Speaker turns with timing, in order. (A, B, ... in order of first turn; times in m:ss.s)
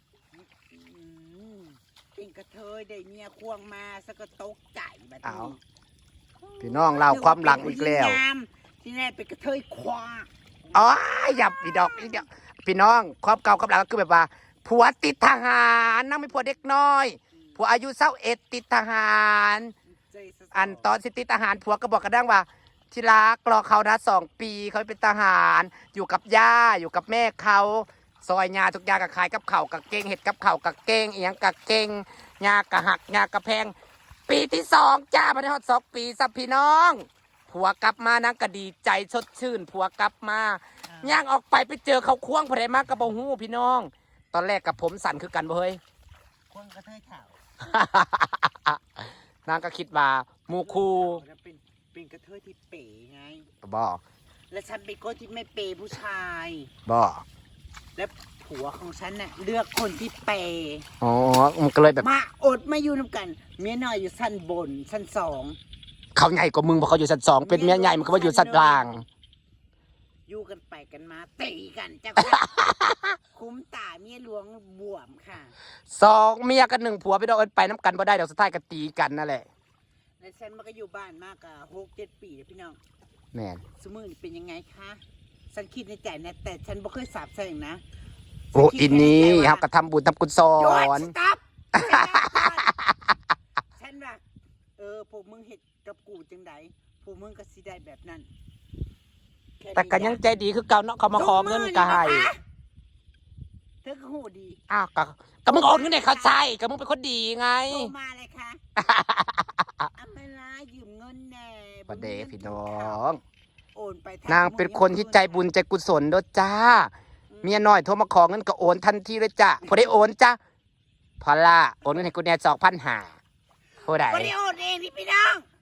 0:00.4-0:05.6 A
0:05.2-0:05.5 B
0:06.4-0:12.3 A
0:06.6-0:08.2 B
0:10.7-0:19.7 B
0:19.9-0:20.9 A
0:20.5-0:33.7 B
0:34.3-0:45.8 B
0:40.8-0:41.2 A
0:46.5-0:47.4 A
0:47.6-0:48.8 B
0:49.4-0:51.2 B
0:50.4-0:53.5 A
0:53.6-0:54.0 B
0:54.5-0:56.7 A
0:56.8-0:57.2 B
0:58.0-1:00.8 A
1:01.0-1:02.0 B
1:02.0-1:05.6 A
1:06.1-1:08.9 B
1:07.4-1:08.9 A
1:10.3-1:12.6 A
1:12.2-1:13.2 B
1:13.3-1:15.5 A
1:15.9-1:19.4 B
1:20.2-1:22.8 A
1:23.3-1:23.6 B
1:23.7-1:25.0 A
1:25.5-1:27.8 A
1:28.5-1:29.7 A
1:28.5-1:31.1 B
1:30.6-1:32.7 A
1:31.7-1:32.7 B
1:33.8-1:34.2 A
1:34.8-1:38.3 A
1:39.6-1:40.2 A
1:39.8-1:42.3 B
1:41.1-1:42.4 A
1:43.8-1:44.6 A
1:44.7-1:47.9 B
1:45.4-1:46.4 A
1:47.7-1:48.6 A
1:48.8-1:49.9 B
1:50.0-1:53.2 A
1:51.9-1:53.2 B
1:53.7-1:55.5 A
1:54.3-1:56.9 B
1:57.3-1:57.7 A
1:57.5-2:00.4 B
2:01.2-2:03.1 B
2:03.8-2:04.3 B
2:03.9-2:05.4 A